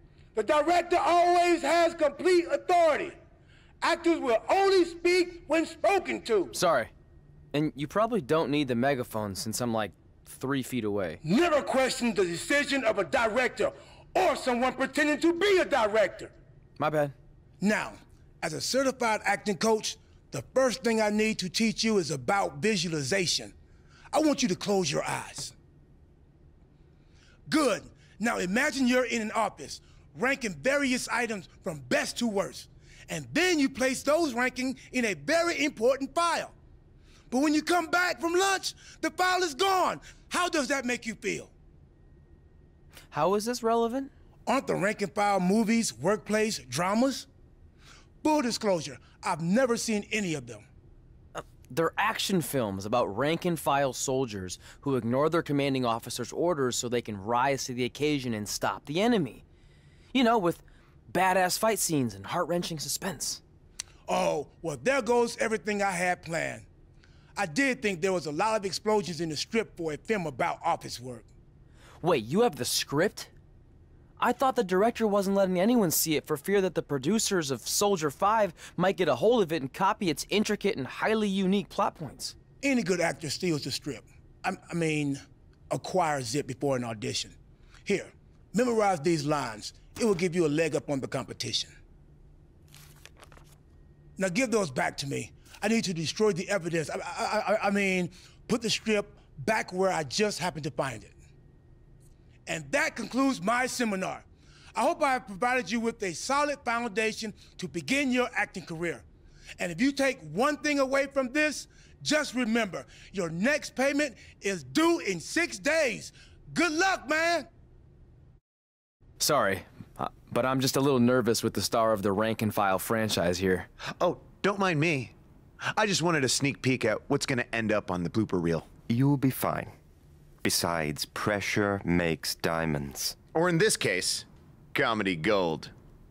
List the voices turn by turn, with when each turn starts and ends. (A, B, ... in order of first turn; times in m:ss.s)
0:00.4-0:03.2 A
0:03.8-0:06.5 A
0:06.5-0:06.9 B
0:07.5-0:11.2 B
0:11.2-0:16.3 A
0:16.8-0:17.2 B
0:17.6-0:23.5 A
0:24.1-0:25.5 A
0:27.5-0:36.6 A
0:37.3-0:41.5 A
0:43.1-0:44.1 B
0:44.5-0:47.3 A
0:48.2-0:50.7 A
0:51.4-0:59.4 B
1:00.1-1:03.4 B
1:04.1-1:06.7 A
1:07.4-1:11.3 A
1:12.0-1:13.3 B
1:14.2-1:22.4 B
1:22.6-1:31.7 A
1:34.2-1:41.1 A
1:42.5-1:49.0 A
1:49.6-1:57.5 A
1:59.2-2:03.7 B
2:04.0-2:05.1 C
2:05.8-2:08.7 C
2:08.9-2:09.7 D
2:10.4-2:13.2 D
2:13.3-2:15.7 C